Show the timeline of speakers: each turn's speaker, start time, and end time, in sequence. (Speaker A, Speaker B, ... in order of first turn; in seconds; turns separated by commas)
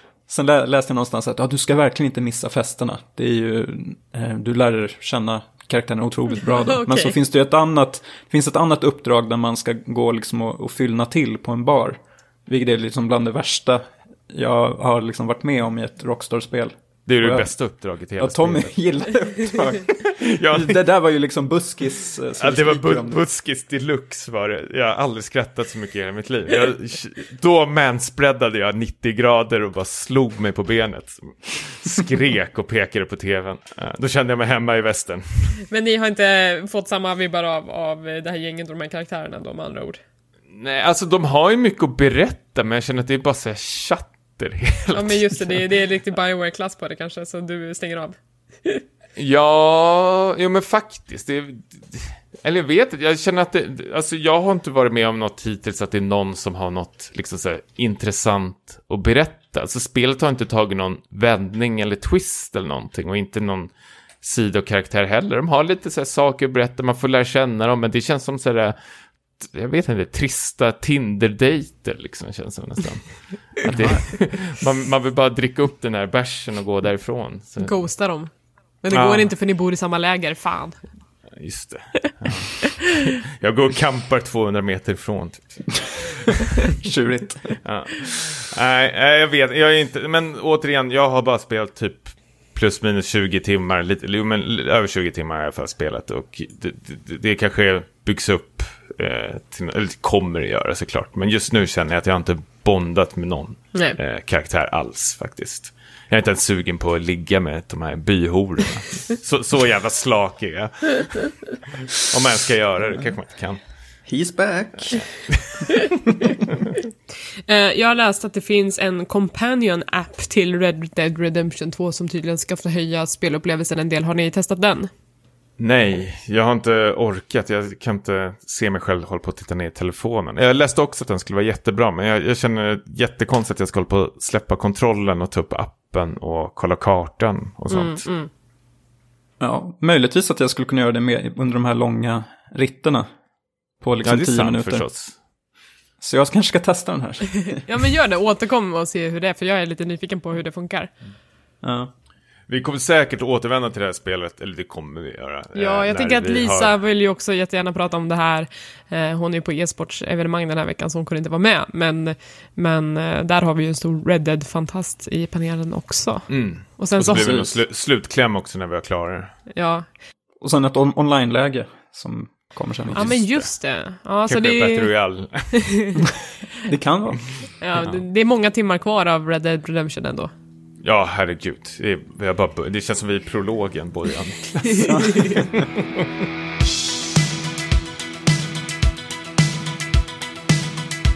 Speaker A: 0.3-17.5, Speaker B: 6.5-7.1, Speaker C: 17.1-18.7, Speaker A: 18.2-23.2, Speaker C: 20.0-20.8, Speaker C: 22.4-35.6, Speaker B: 35.7-40.0, Speaker C: 40.5-45.6, Speaker B: 44.9-48.8, Speaker C: 49.2-68.8, Speaker C: 69.4-77.8, Speaker B: 77.6-80.8, Speaker C: 78.9-79.3, Speaker C: 81.3-86.7, Speaker A: 86.8-87.6, Speaker C: 87.6-113.6, Speaker A: 114.1-115.1, Speaker C: 115.3-115.6, Speaker B: 117.5-124.9, Speaker C: 125.6-138.1, Speaker B: 137.7-138.3, Speaker A: 139.4-143.1, Speaker A: 143.8-144.8, Speaker C: 144.0-145.2, Speaker A: 146.0-147.6, Speaker B: 147.5-150.9, Speaker A: 151.6-151.9, Speaker C: 152.5-156.7, Speaker B: 155.6-167.5, Speaker C: 166.3-169.3, Speaker A: 167.1-167.5, Speaker B: 169.5-169.9, Speaker A: 170.4-173.3, Speaker C: 172.9-173.3, Speaker B: 172.9-174.9, Speaker C: 174.3-175.5, Speaker B: 175.5-176.0, Speaker A: 176.7-177.2, Speaker B: 177.6-180.3, Speaker C: 180.8-185.9, Speaker B: 184.8-185.4